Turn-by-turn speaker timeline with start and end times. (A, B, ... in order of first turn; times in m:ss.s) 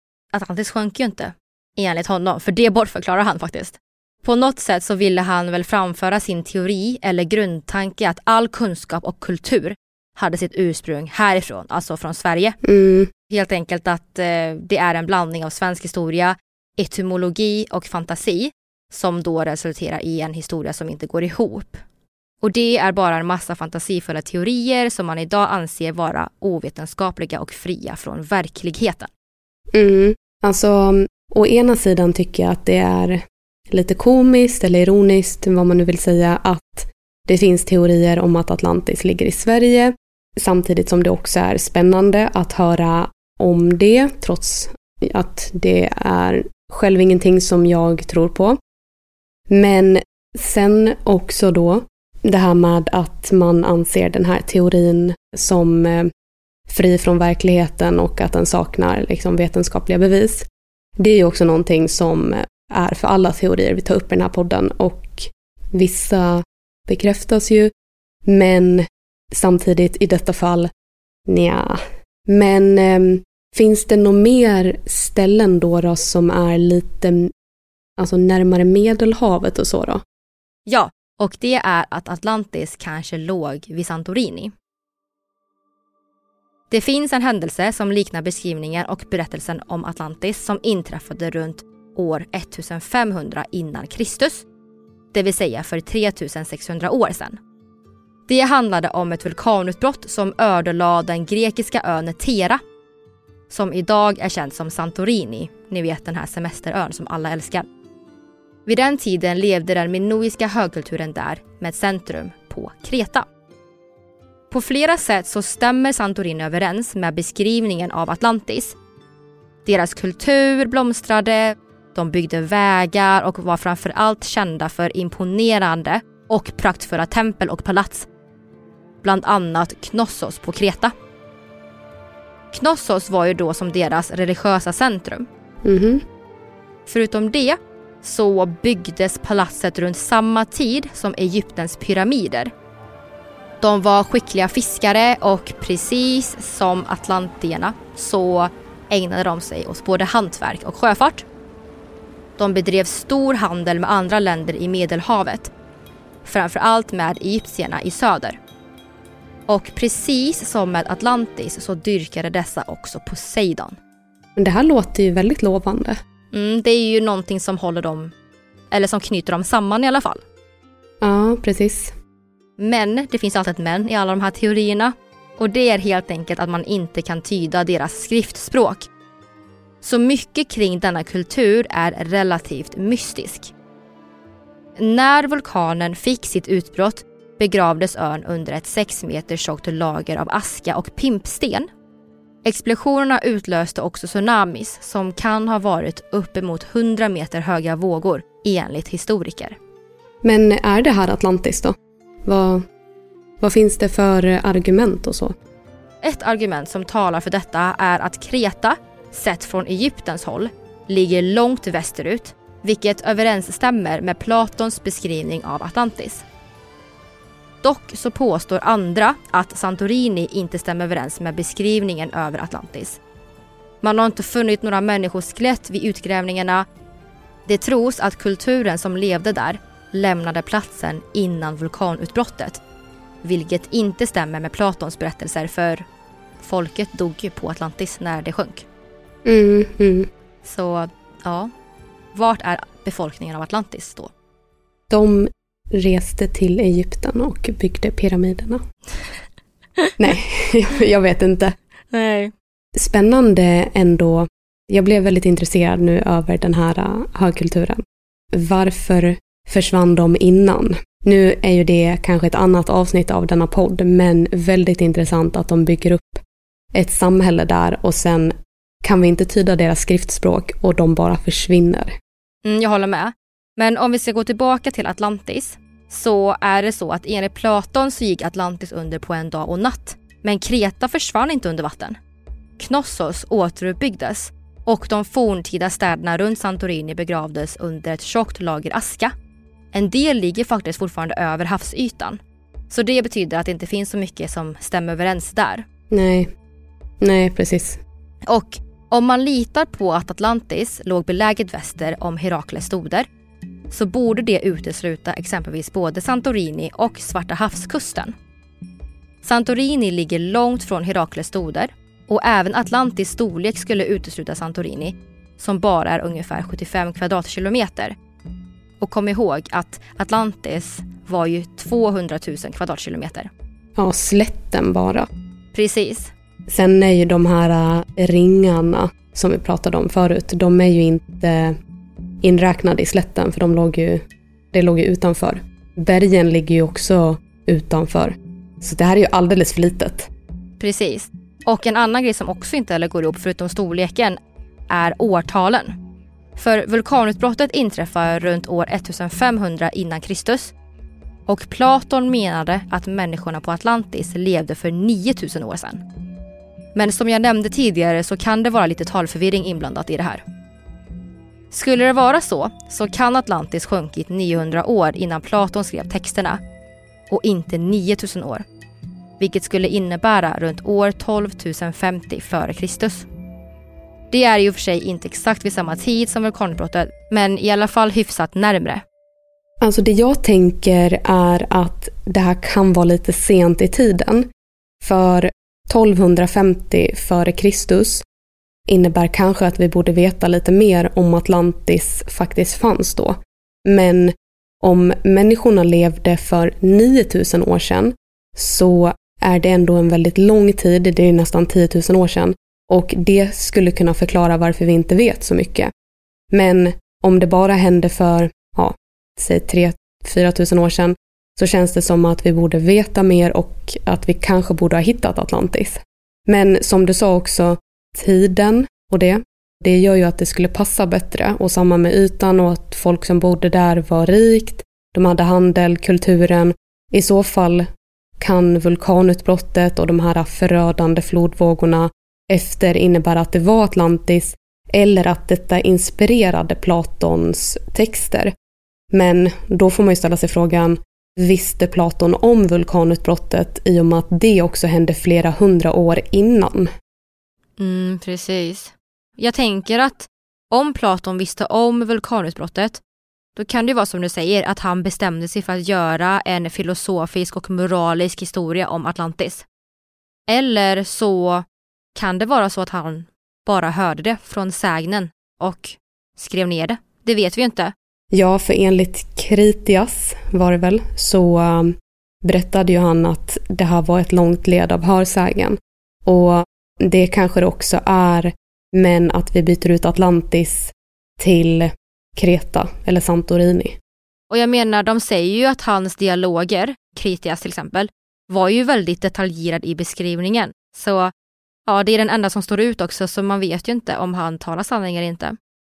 0:00.3-0:12.6 A
0:12.6-0:13.1 B
0:13.3-0:21.8 A
0:22.4-0:29.1 A
0:29.7-0:48.6 B
0:49.5-0:56.1 B
0:56.7-1:00.5 B
1:01.0-1:07.7 B
1:08.3-1:10.7 B
1:11.3-1:17.3 B
1:18.0-1:20.0 B
1:20.7-1:24.5 A
1:26.7-1:34.5 A
1:35.1-1:37.4 A
1:38.3-1:42.6 A
1:43.5-1:47.7 A
1:48.7-1:53.2 A
1:54.5-1:58.8 A
1:59.6-2:08.1 A
2:09.0-2:10.9 A
2:12.5-2:15.3 A
2:15.6-2:16.0 B
2:16.9-2:22.5 A
2:23.6-2:31.2 A
2:32.4-2:35.5 A
2:36.2-2:38.4 A
2:39.5-2:43.8 A
2:44.4-2:46.0 B
2:46.3-2:48.1 A
2:48.7-2:50.2 A
2:51.0-2:52.0 B
2:52.6-2:58.9 A
2:59.8-3:03.5 A
3:04.8-3:11.7 A
3:12.4-3:19.6 A
3:20.2-3:22.7 B
3:23.4-3:25.3 B
3:26.0-3:36.2 A
3:37.6-3:43.0 A
3:43.8-3:46.7 A
3:47.5-3:52.6 A
3:53.2-3:55.8 A
3:56.4-3:58.7 A
3:59.3-4:00.1 B
4:00.4-4:01.5 A
4:02.1-4:04.1 A
4:04.9-4:08.6 B
4:10.0-4:11.6 B
4:11.9-4:12.3 A
4:12.8-4:26.2 B
4:26.7-4:32.0 B
4:32.4-4:42.0 A
4:42.6-4:49.1 A
4:49.7-4:55.6 A
4:55.9-4:56.3 B
4:57.0-4:57.8 B
4:58.3-5:03.1 A
5:03.7-5:08.1 A
5:09.2-5:18.0 A
5:18.8-5:23.3 A
5:23.8-5:25.1 B
5:25.5-5:26.1 A
5:26.5-5:31.6 B
5:32.2-5:40.1 B
5:40.6-5:45.7 A
5:46.4-5:50.5 A
5:51.3-5:55.8 A
5:56.8-6:00.2 A
6:01.5-6:06.4 A
6:07.1-6:08.4 A
6:09.2-6:13.1 A
6:14.1-6:18.8 A
6:19.6-6:24.3 B
6:24.8-6:28.0 B
6:28.7-6:45.7 B
6:46.3-7:18.3 B
7:18.9-7:26.7 B
7:27.6-7:32.8 A
7:33.4-7:39.4 A
7:40.3-7:47.7 A
7:48.1-8:03.8 B
8:04.3-8:11.1 A
8:11.7-8:15.4 A